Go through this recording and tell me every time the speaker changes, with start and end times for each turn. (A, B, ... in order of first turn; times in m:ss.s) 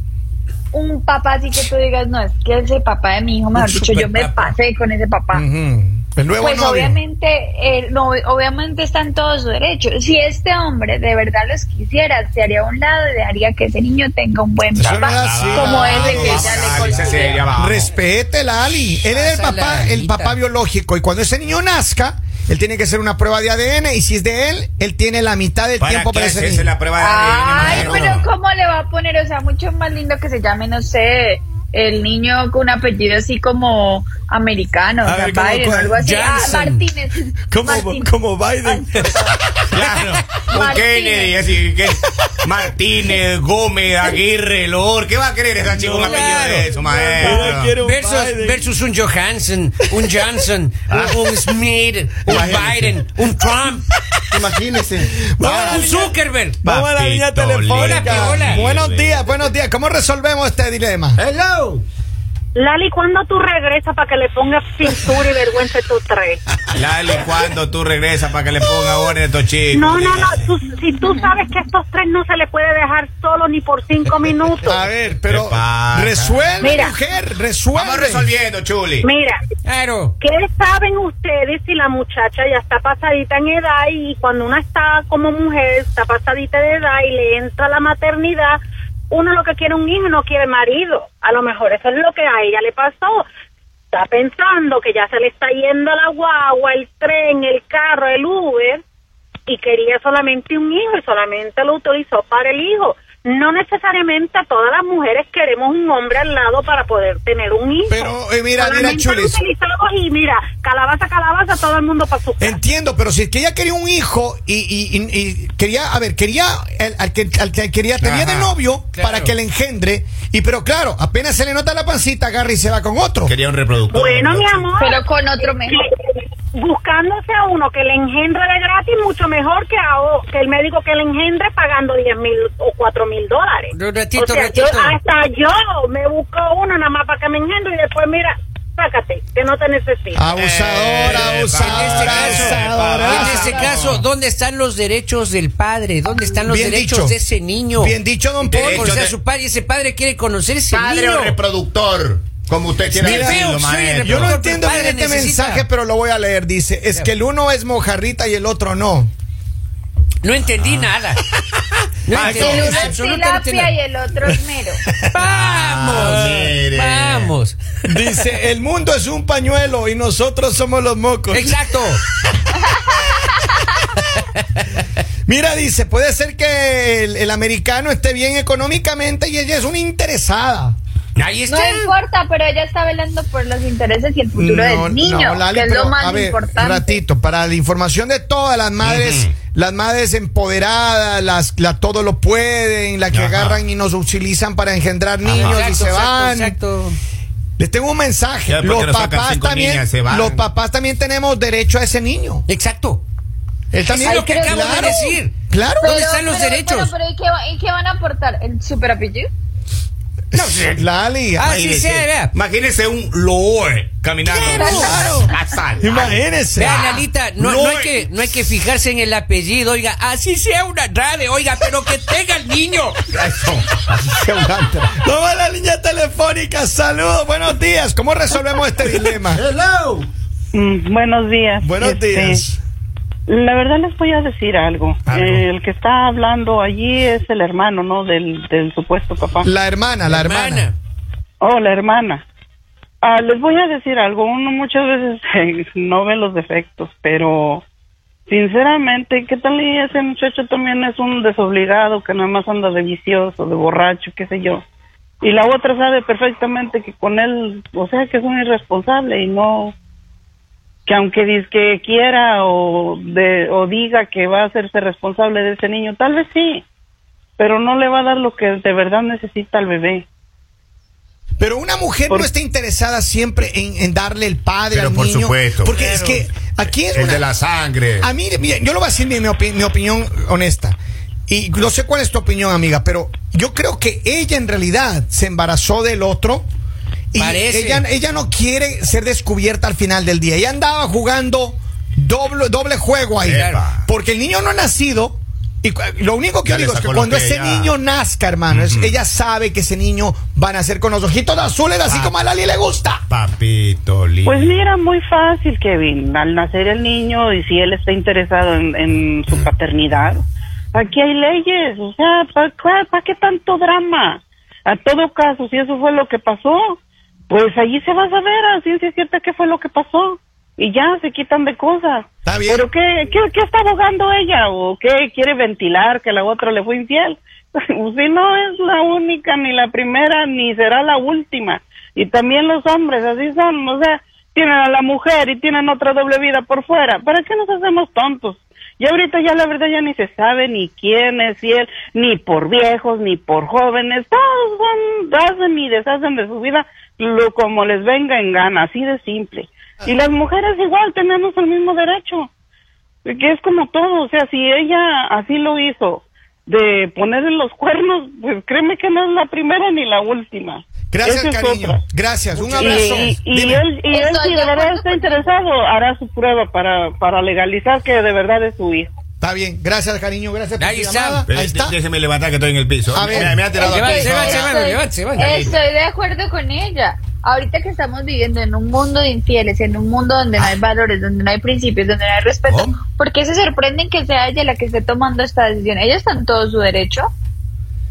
0:00.7-0:05.4 A
0:03.5-0:04.5 B
0:05.3-0:07.0 C
0:06.4-0:17.5 A
0:14.7-0:16.9 C
0:15.0-0:17.9 D
0:17.5-0:26.7 C
0:19.1-0:20.4 B
0:25.8-0:28.3 D
0:27.0-0:38.1 A
0:27.5-0:28.2 C
0:35.0-0:36.0 C
0:36.0-0:36.8 B
0:37.4-0:39.6 C
0:38.6-0:39.4 A
0:39.7-0:47.7 D
0:40.5-0:41.4 A
0:45.7-0:48.7 C
0:46.0-0:46.6 B
0:47.2-0:53.9 B
0:50.9-0:51.2 D
0:52.2-0:52.9 D
0:54.3-0:55.1 D
0:55.2-1:01.2 C
0:55.4-0:56.6 B
0:56.6-0:59.4 D
0:57.7-0:58.6 B
1:01.2-1:01.8 D
1:02.5-1:06.4 E
1:06.8-1:10.4 D
1:09.7-1:14.8 E
1:14.6-1:18.3 C
1:15.3-1:16.5 D
1:16.6-1:16.9 E
1:17.7-1:19.1 D
1:19.0-1:19.4 E
1:19.6-1:20.1 B
1:20.2-1:28.6 E
1:29.1-1:33.2 E
1:33.9-1:38.8 E
1:39.5-1:52.6 E
1:47.9-1:49.4 C
1:52.4-2:03.3 C
1:58.0-1:58.5 D
1:58.9-1:59.3 B
2:03.2-2:04.7 D
2:03.9-2:05.0 E
2:04.8-2:05.8 A
2:05.7-2:20.2 E
2:13.7-2:15.0 B
2:20.1-2:23.8 C
2:20.3-2:24.0 D
2:21.6-2:27.9 B
2:26.4-2:27.2 C
2:27.8-2:28.9 C
2:28.5-2:29.1 D
2:28.5-2:31.4 B
2:30.7-2:34.3 D
2:32.9-2:35.6 B
2:33.0-2:33.5 C
2:34.0-2:39.1 C
2:40.2-2:41.2 B
2:42.0-2:43.7 B
2:42.1-2:42.6 D
2:42.1-2:42.9 C
2:42.3-2:44.8 A
2:44.9-2:45.1 C
2:45.1-2:47.6 B
2:45.2-2:47.3 D
2:45.9-2:46.5 C
2:47.8-2:51.6 C
2:51.3-2:52.0 B
2:52.6-2:53.5 A
2:55.3-3:00.8 C
3:01.2-3:01.9 B
3:01.5-3:07.0 A
3:04.3-3:16.6 C
3:08.8-3:09.3 D
3:13.1-3:13.6 D
3:15.2-3:15.6 D
3:15.3-3:17.0 B
3:17.6-3:22.4 C
3:18.5-3:20.4 D
3:22.5-3:23.0 B
3:23.7-3:26.0 C
3:23.8-3:26.9 B
3:24.0-3:25.2 A
3:25.8-3:29.3 A
3:30.3-3:30.8 B
3:30.3-3:31.5 C
3:31.4-3:32.3 B
3:31.4-3:37.9 D
3:34.4-3:35.3 A
3:34.4-3:37.0 C
3:34.6-3:34.9 B
3:36.6-3:43.0 B
3:43.1-3:44.0 D
3:44.0-3:49.4 C
3:49.4-3:50.1 D
3:50.5-3:52.4 F
3:51.6-3:52.6 C
3:53.3-3:59.4 F
3:55.0-3:55.4 C
3:59.4-4:00.7 C
4:00.1-4:00.8 B
4:01.4-4:02.2 F
4:03.0-4:07.6 F
4:08.3-4:14.6 F
4:15.2-4:19.7 F
4:20.8-4:26.6 F
4:27.4-4:30.0 F
4:31.4-4:37.3 C
4:34.7-4:35.8 D
4:36.9-4:38.1 D
4:38.0-4:40.8 C
4:41.3-4:46.5 C
4:47.1-5:03.0 C
4:47.2-4:47.8 B
4:53.2-4:53.8 D
4:56.4-4:57.7 D
4:58.5-4:58.9 D
5:01.8-5:02.1 D
5:03.1-5:04.7 D
5:04.2-5:16.8 F
5:17.3-5:52.3 F
5:22.2-5:22.6 C
5:53.0-6:01.8 F
6:00.9-6:03.6 C
6:02.4-6:08.9 F
6:02.6-6:02.9 A
6:03.8-6:05.3 A
6:09.2-6:11.8 C
6:10.6-6:11.2 B
6:11.3-6:14.5 D
6:12.9-6:13.5 C
6:13.5-6:27.1 A
6:13.6-6:15.4 B
6:15.2-6:15.5 D
6:22.5-6:22.8 D